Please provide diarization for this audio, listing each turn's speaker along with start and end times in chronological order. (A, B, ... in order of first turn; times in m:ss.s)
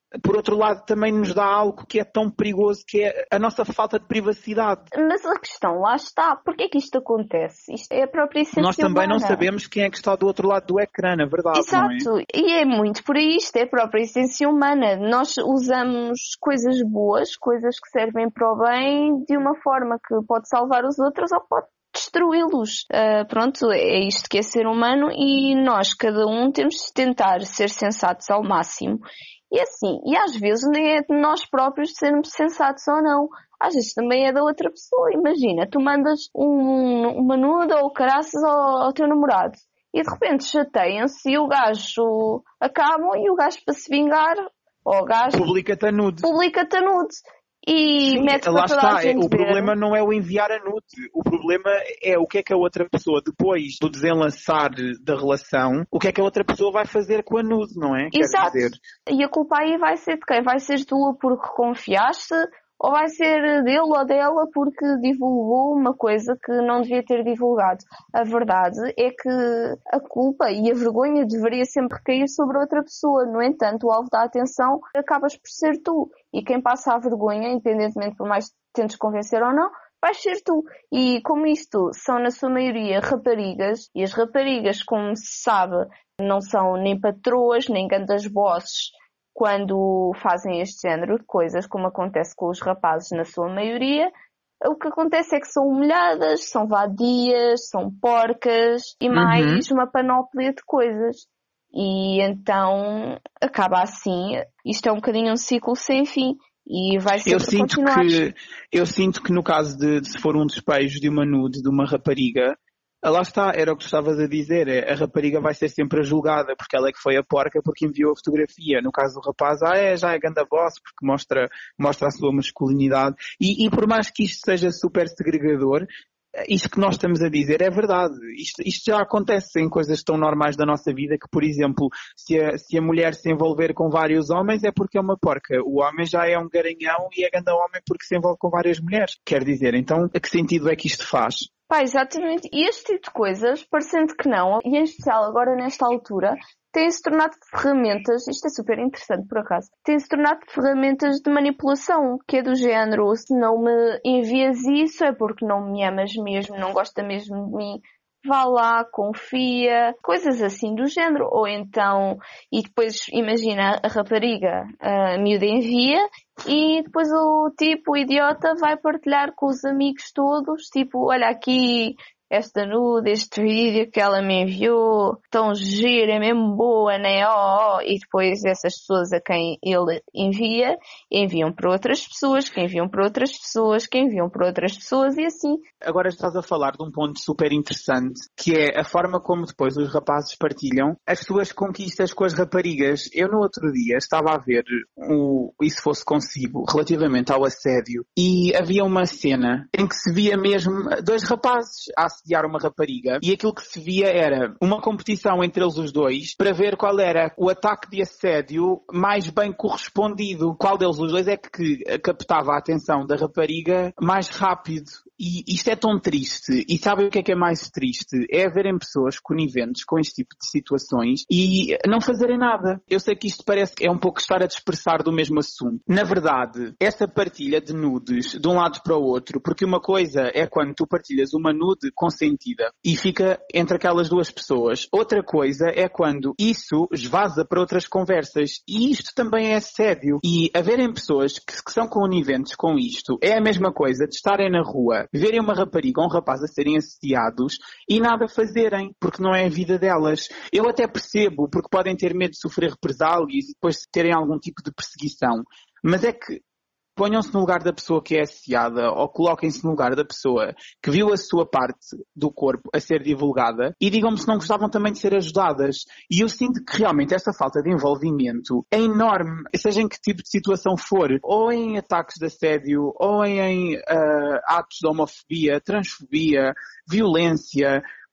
0:00.2-0:04.9 A
0:04.9-0:09.5 B
0:08.6-0:12.1 A
0:11.5-0:45.5 B
0:45.3-0:46.3 A
0:46.2-0:49.7 B
0:48.0-0:58.8 A
0:58.1-1:34.1 B
1:34.6-1:48.2 B
1:39.1-1:39.6 A
1:47.2-2:05.9 A
2:06.5-2:21.5 A
2:21.7-3:05.6 B
3:05.8-4:16.4 A
4:17.0-4:37.8 A